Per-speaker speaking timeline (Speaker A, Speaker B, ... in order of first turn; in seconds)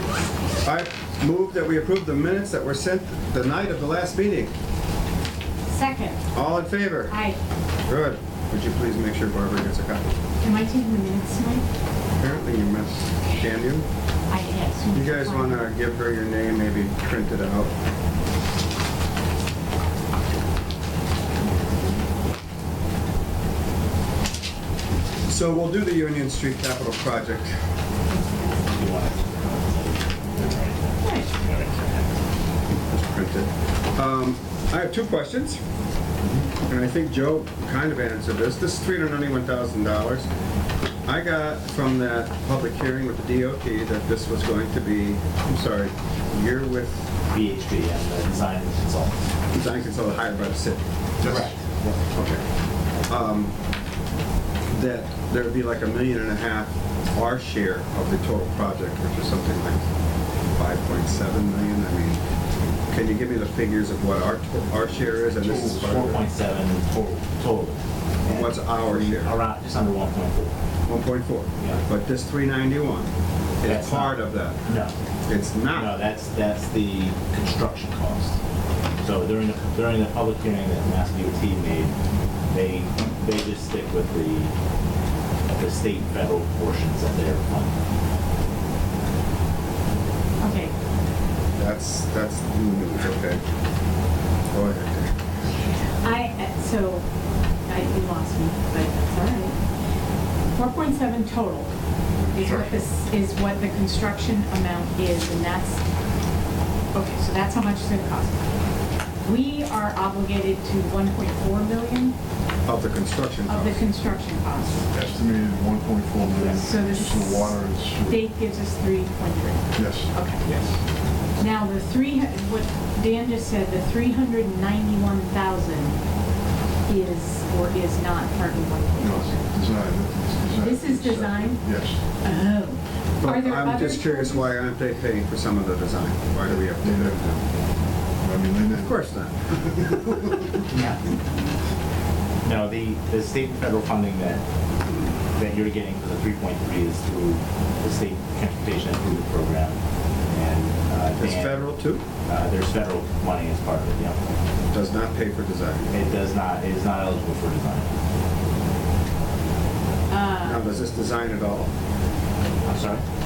Speaker A: 0.6-4.5, 6.3-7.2, 7.9-10.1, 12.2-13.8, 14.9-17.7, 25.2-27.6, 32.9-35.6, 36.6-40.3, 41.0-47.1, 49.5-50.8, 52.0-52.4, 53.1-53.5, 54.7-59.9, 60.5-62.2, 62.9-66.2, 68.2-69.4, 70.8-74.6, 75.3-75.9, 91.6-93.4, 94.5-95.1, 112.7-113.8, 133.2-137.4, 138.7-140.4, 151.2-152.0, 154.7-155.9, 160.4-161.7
Speaker B: 5.7-6.2, 7.1-7.4, 10.4-11.7, 14.3-15.7, 31.0-31.3, 90.4-90.7, 95.6-97.0, 97.7-99.6, 100.5-101.7, 102.3-105.8, 106.9-108.5, 109.2-112.1, 113.5-114.8, 116.6-120.4, 121.4-126.0, 126.9-129.4, 130.6-134.6, 160.1-160.7
Speaker C: 28.7-32.2, 47.3-49.2, 51.2-52.0, 65.8-70.5, 73.6-74.9, 75.7-78.4, 79.0-81.9, 82.5-84.5, 85.5-87.7, 140.7-141.0, 142.4-144.4, 145.3-151.7, 152.2-154.2, 155.9-157.9, 162.6-163.0
Speaker D: 51.2-51.5, 65.0-67.3, 102.4-102.7, 114.9-118.4, 119.7-120.6, 129.0-132.0, 136.5-137.2, 138.2-139.1